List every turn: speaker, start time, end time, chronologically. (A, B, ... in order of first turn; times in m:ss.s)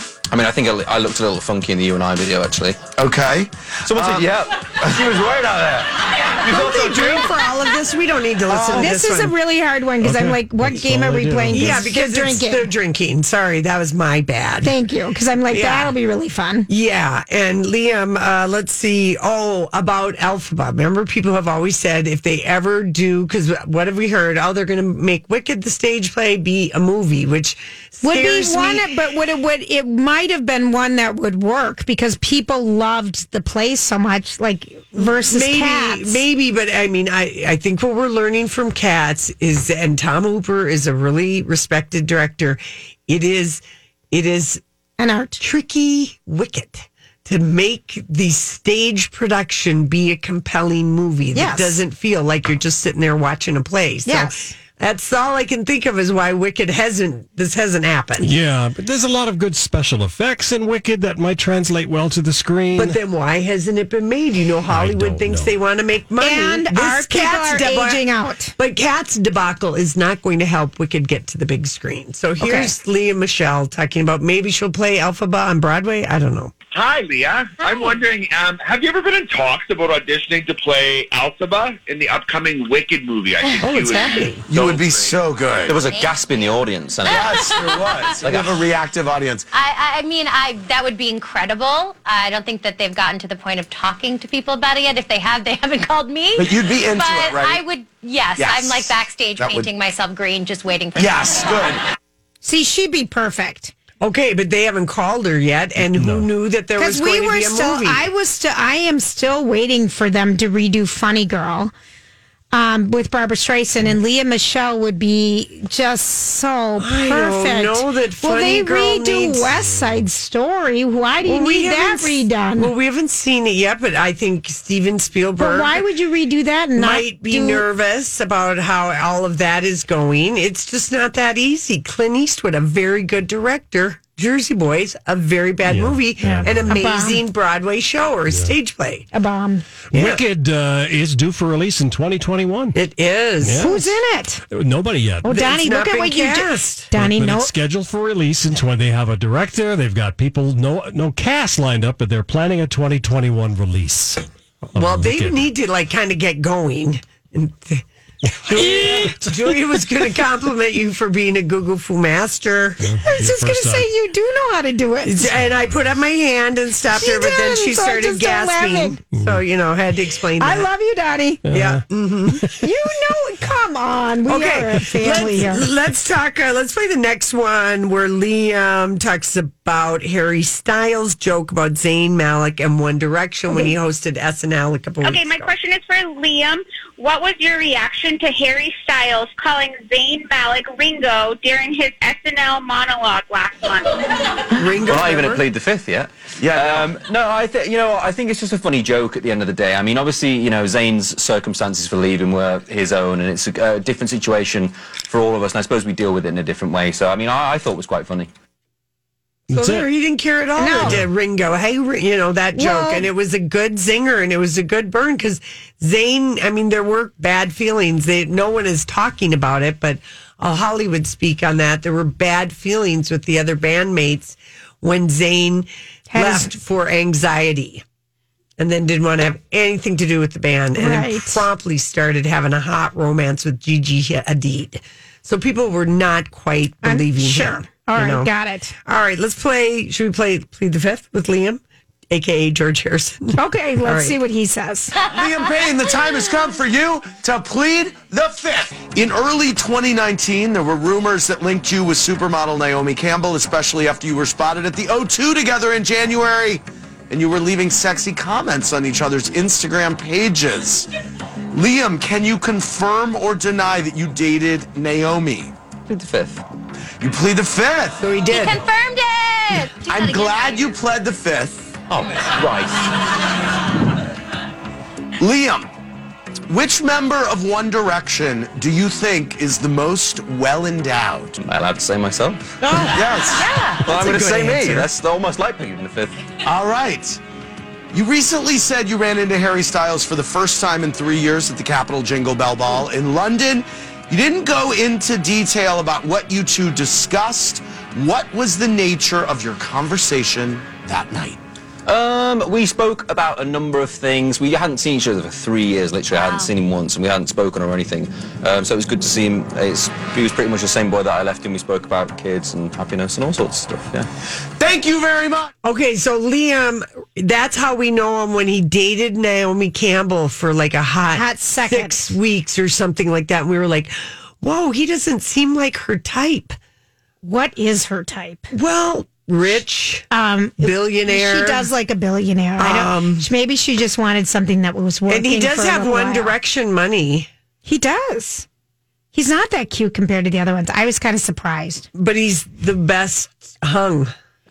0:00.3-0:02.8 A
0:03.0-0:07.3 B
0:03.8-0:05.2 A
0:06.4-0:09.3 C
0:08.5-0:08.8 B
0:08.7-0:12.7 D
0:10.0-0:11.9 E
0:11.5-0:14.7 C
0:14.6-0:16.7 D
0:15.5-0:15.9 C
0:16.7-0:28.9 C
0:28.0-0:36.2 D
0:34.9-0:44.6 C
0:45.0-0:45.4 D
0:45.4-0:58.3 C
0:51.3-0:51.8 D
0:54.0-0:54.5 D
0:58.2-1:03.0 E
1:02.8-1:08.0 C
1:04.7-1:05.5 E
1:06.2-1:08.5 D
1:08.6-1:16.5 C
1:12.4-1:12.7 D
1:16.7-1:25.2 F
1:17.6-1:17.9 G
1:23.6-1:24.4 C
1:24.5-1:25.8 B
1:25.7-1:27.5 A
1:25.9-1:26.4 G
1:27.0-1:28.2 G
1:27.1-1:29.5 B
1:28.2-1:28.6 A
1:29.5-1:41.4 G
1:36.4-1:37.6 B
1:38.4-1:39.7 B
1:40.9-1:41.8 B
1:42.4-1:43.7 D
1:44.0-1:48.0 C
1:45.9-1:46.3 E
1:46.8-1:51.7 D
1:52.5-2:02.7 D
1:56.8-1:59.5 C
2:01.2-2:05.8 C
2:05.4-2:07.6 D
2:06.7-2:19.1 C
2:15.6-2:16.8 E
2:16.6-2:17.2 D
2:19.1-2:19.7 D
2:19.9-2:20.2 C
2:19.9-2:22.8 E
2:22.7-2:23.8 C
2:23.4-2:23.8 E
2:23.6-2:24.4 D
2:24.5-2:25.3 E
2:25.2-2:26.9 C
2:25.2-2:27.5 D
2:26.9-2:35.4 E
2:34.7-2:37.8 C
2:38.3-2:39.3 E
2:38.4-2:42.9 C
2:42.8-2:43.9 E
2:43.0-2:45.2 D
2:45.0-2:50.7 C
2:46.9-2:49.0 D
2:49.1-2:49.4 E
2:50.4-2:51.4 D
2:51.4-2:51.8 E
2:51.5-2:52.5 C
2:52.6-2:55.6 D
2:54.3-3:05.5 C
3:05.0-3:13.9 H
3:14.5-3:15.4 C
3:14.8-3:28.3 A
3:16.4-3:16.9 B
3:29.5-3:29.9 E
3:29.5-3:47.8 C
3:30.6-3:31.0 D
3:30.8-3:31.0 E
3:32.5-3:33.1 D
3:46.1-3:46.5 D
3:48.6-3:58.3 C
3:50.8-3:51.4 D
3:56.8-3:58.7 D
3:58.8-4:04.2 C
4:03.4-4:05.0 D
4:05.0-4:20.9 B
4:21.5-4:25.5 B
4:25.9-4:26.4 A
4:27.0-4:28.0 B
4:28.0-4:28.6 C
4:28.2-4:30.7 G
4:29.8-4:31.8 B
4:31.9-4:32.7 A
4:35.2-4:35.7 B
4:36.5-4:41.3 B
4:41.4-4:42.8 A
4:42.8-4:44.9 B
4:43.8-4:46.2 A
4:46.4-4:47.2 B
4:47.9-5:01.4 B
5:01.9-5:14.1 A
5:06.1-5:06.5 G
5:14.6-5:15.5 B
5:15.6-5:26.6 C
5:21.1-5:22.1 D
5:27.2-5:28.5 D
5:28.5-5:30.1 C
5:30.1-5:36.3 D
5:30.6-5:31.7 C
5:32.6-5:33.3 C
5:35.1-5:37.3 C
5:37.6-5:38.4 D
5:39.1-5:41.9 D
5:41.9-5:44.1 C